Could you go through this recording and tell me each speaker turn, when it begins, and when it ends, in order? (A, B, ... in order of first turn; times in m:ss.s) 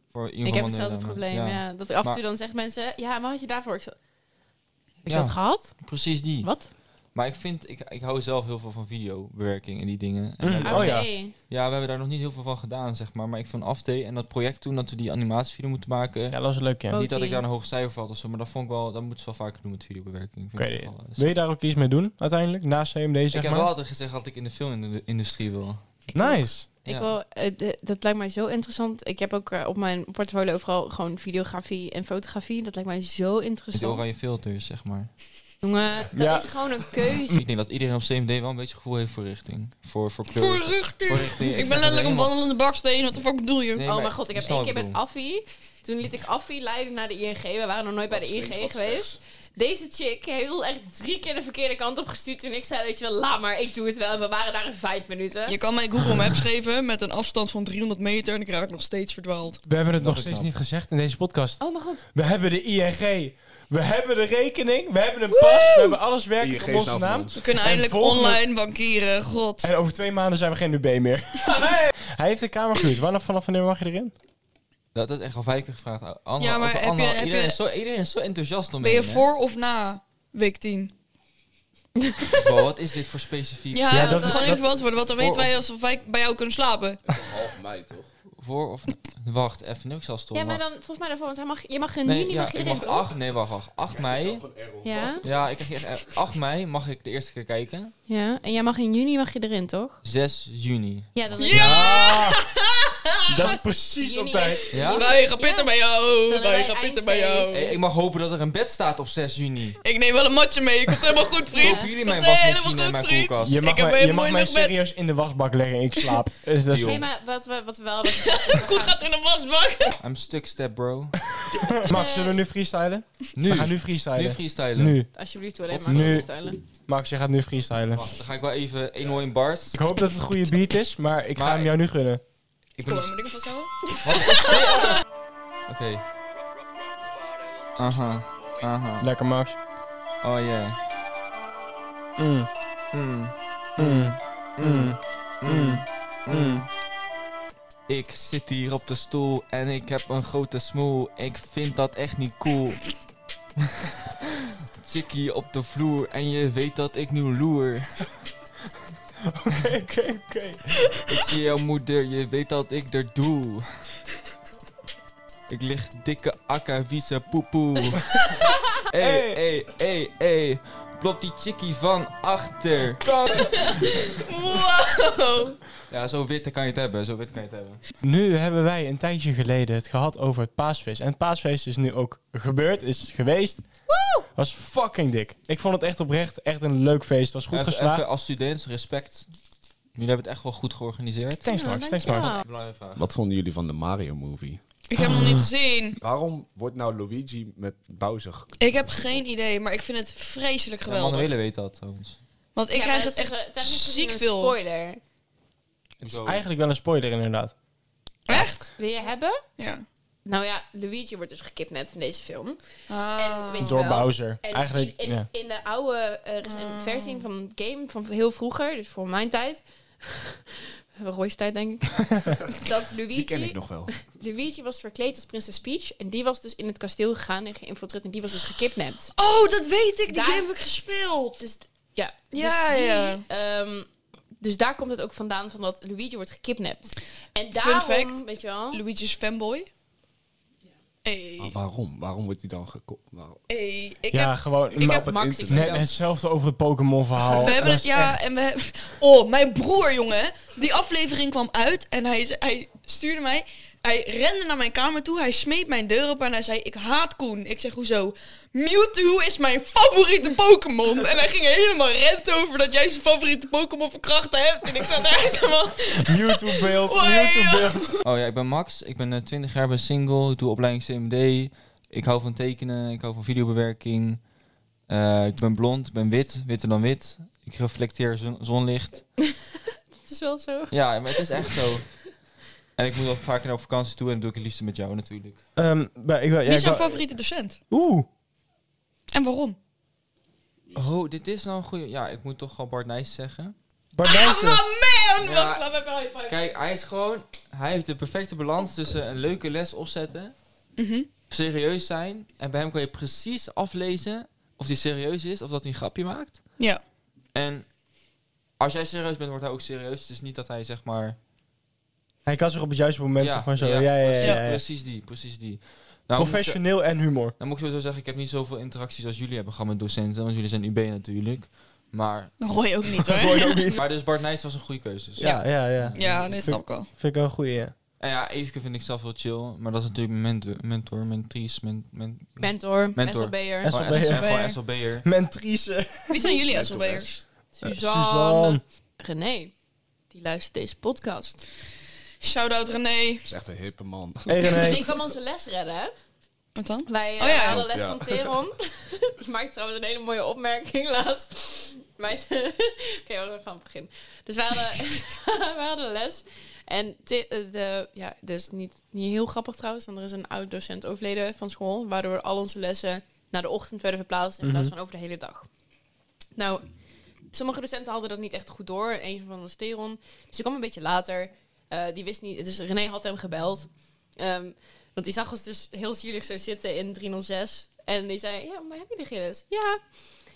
0:00.1-0:02.2 A
0:00.4-0:03.9 B
0:05.0-0:06.7 B
0:05.1-0:21.3 A
0:10.4-0:11.1 C
0:10.6-0:11.3 B
0:16.3-0:17.0 C
0:16.9-0:17.4 B
0:20.6-0:23.7 C
0:23.3-0:26.1 A
0:26.1-0:34.0 B
0:26.1-0:26.7 C
0:26.8-0:27.1 A
0:33.7-0:35.1 A
0:35.6-0:37.4 B
0:36.1-0:36.6 C
0:37.3-0:42.3 A
0:40.3-0:43.8 D
0:43.7-0:45.0 A
0:43.8-0:55.6 B
0:48.1-0:49.2 E
0:55.5-0:59.6 D
0:59.6-1:08.4 C
1:00.0-1:00.5 A
1:01.6-1:02.0 B
1:05.3-1:06.0 D
1:06.4-1:07.5 E
1:07.3-1:09.7 D
1:09.6-1:14.1 C
1:14.9-1:19.3 A
1:16.4-1:17.6 D
1:18.8-1:20.9 D
1:22.0-1:22.4 B
1:22.4-1:24.4 A
1:23.7-1:27.0 D
1:23.9-1:24.6 C
1:24.0-1:24.5 B
1:25.2-1:25.5 A
1:27.0-1:28.1 E
1:28.4-1:30.6 A
1:30.3-1:33.0 B
1:32.0-1:34.4 A
1:33.9-1:35.7 E
1:34.8-1:35.2 B
1:35.2-1:37.9 A
1:38.1-1:40.0 B
1:40.0-1:42.1 A
1:41.1-1:42.2 B
1:41.4-1:43.3 D
1:41.6-1:42.4 C
1:43.3-1:44.6 C
1:43.4-1:47.8 B
1:44.7-1:45.1 A
1:44.8-1:47.7 D
1:47.5-1:49.8 A
1:49.8-1:54.7 D
1:51.5-1:53.6 A
1:51.5-1:51.9 B
1:53.4-1:57.0 C
1:56.7-1:57.0 A
1:56.8-1:59.0 B
1:58.1-2:00.0 D
2:00.0-2:01.2 A
2:01.5-2:05.1 C
2:01.8-2:02.4 B
2:03.4-2:05.0 A
2:05.1-2:06.6 B
2:05.7-2:06.3 A
2:05.9-2:06.3 C
2:06.9-2:08.0 C
2:07.9-2:09.8 A
2:09.7-2:12.2 C
2:11.4-2:11.7 A
2:12.8-2:13.1 A
2:12.8-2:14.6 D
2:14.0-2:15.0 A
2:15.7-2:16.0 A
2:17.8-2:19.1 A
2:19.0-2:19.6 C
2:20.2-2:20.8 A
2:22.2-2:22.5 C
2:22.9-2:26.7 A
2:23.8-2:26.6 C
2:27.9-2:32.9 A
2:34.8-2:38.1 A
2:39.3-2:40.7 C
2:41.1-2:43.9 A
2:45.5-2:48.2 A
2:48.9-2:53.6 A
2:49.0-2:49.4 C
2:53.1-2:55.6 D
2:55.9-2:57.8 A
2:58.0-3:03.7 C
3:04.3-3:08.0 C
3:07.5-3:09.3 A
3:09.9-3:11.4 A
3:11.4-3:12.3 C
3:11.4-3:12.4 B
3:12.1-3:13.0 A
3:13.0-3:14.6 E
3:14.9-3:16.0 D
3:15.0-3:15.4 C
3:16.0-3:19.2 E
3:18.6-3:21.3 D
3:20.9-3:22.2 A
3:22.5-3:24.6 D
3:22.7-3:25.0 B
3:26.0-3:26.4 A
3:26.0-3:27.5 C
3:28.3-3:28.7 D
3:28.3-3:29.4 B
3:29.6-3:29.8 D
3:30.2-3:32.6 B
3:32.9-3:33.8 D
3:33.1-3:40.4 B
3:33.6-3:35.3 C
3:36.5-3:37.2 D
3:40.9-3:49.1 B
3:43.1-3:43.9 E
3:49.1-3:51.4 D
3:50.1-3:50.8 B
3:51.4-3:53.9 B
3:52.3-3:53.2 D
3:54.4-3:58.8 B
3:57.5-3:59.7 D
4:01.0-4:01.6 D
4:01.4-4:03.4 E
4:03.5-4:04.8 D
4:04.1-4:08.2 C
4:04.8-4:05.9 E
4:04.9-4:05.9 B
4:07.3-4:28.0 D
4:26.0-4:27.9 C
4:28.0-4:34.2 A
4:34.9-4:39.1 A
4:40.0-4:41.6 B
4:40.7-4:42.1 A
4:42.8-4:45.4 A
4:45.6-4:47.0 C
4:46.4-4:47.6 D
4:47.7-4:48.1 C
4:49.1-4:49.6 D
4:50.7-4:53.5 A
4:54.0-4:54.6 C
4:54.0-4:56.4 D
4:55.2-4:55.6 A
4:56.3-5:00.3 A
5:00.8-5:01.1 D
5:01.3-5:06.6 A
5:07.3-5:07.7 A
5:08.6-5:11.2 A
5:12.2-5:14.6 C
5:13.2-5:22.3 A
5:14.2-5:14.4 D
5:16.1-5:17.3 C
5:22.4-5:23.6 D
5:23.0-5:23.8 C
5:23.7-5:26.4 A
5:25.2-5:27.7 C
5:25.2-5:26.9 D
5:28.0-5:35.0 A
5:32.4-5:33.8 B
5:33.6-5:34.3 C
5:34.0-5:34.6 D
5:35.0-5:36.3 C
5:36.1-5:37.1 D
5:36.5-5:37.2 E
5:37.6-5:39.5 B
5:37.6-5:38.6 C
5:40.1-5:41.4 B
5:42.2-5:43.3 D
5:43.2-5:44.8 E
5:44.2-5:44.8 C
5:44.5-5:45.9 B
5:46.5-5:47.7 D
5:46.8-6:05.5 B
5:47.5-5:48.3 E
6:04.4-6:04.7 C
6:06.4-6:06.6 B
6:07.3-6:19.8 B